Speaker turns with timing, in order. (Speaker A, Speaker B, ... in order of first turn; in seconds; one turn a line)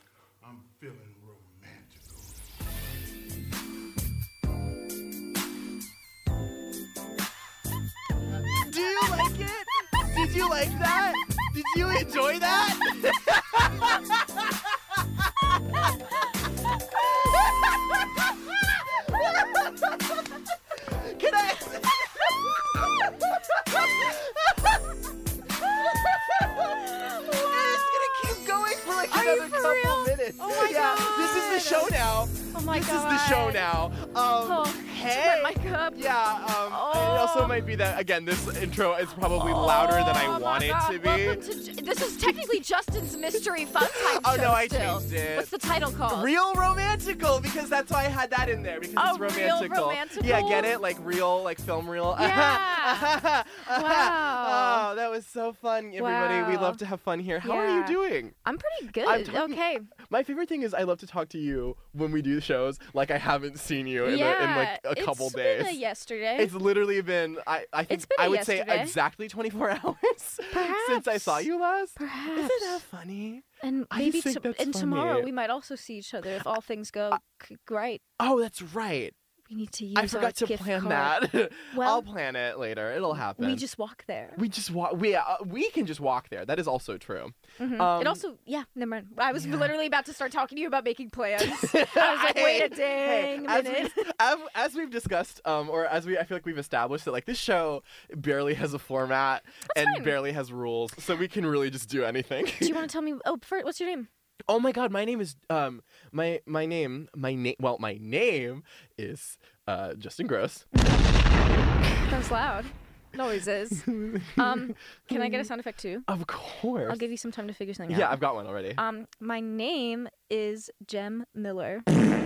Speaker A: 0.4-2.4
Speaker B: 8.6-16.3
Speaker B: 16.9-24.9
Speaker B: 25.5-41.4
Speaker C: 26.8-28.3
Speaker C: 29.1-32.0
Speaker C: 32.5-33.7
Speaker C: 34.4-37.6
Speaker C: 39.3-46.3
Speaker B: 43.8-45.5
Speaker B: 46.1-58.3
Speaker C: 49.0-50.8
Speaker C: 52.1-54.9
Speaker C: 56.0-56.8
Speaker C: 57.4-59.9
Speaker B: 59.0-65.8
Speaker C: 64.0-66.5
Speaker B: 66.3-75.3
Speaker C: 67.9-69.0
Speaker C: 70.5-72.8
Speaker C: 73.6-78.0
Speaker B: 78.2-79.1
Speaker C: 79.5-81.2
Speaker B: 79.9-83.6
Speaker C: 81.7-82.1
Speaker C: 83.1-84.4
Speaker B: 84.3-88.2
Speaker C: 87.6-94.1
Speaker B: 89.3-89.8
Speaker B: 91.4-102.8
Speaker C: 99.7-100.1
Speaker C: 102.6-104.1
Speaker B: 104.5-110.7
Speaker C: 110.7-111.0
Speaker C: 112.0-116.1
Speaker B: 113.8-115.5
Speaker B: 116.1-117.0
Speaker C: 116.8-118.2
Speaker B: 117.9-118.8
Speaker C: 118.7-121.9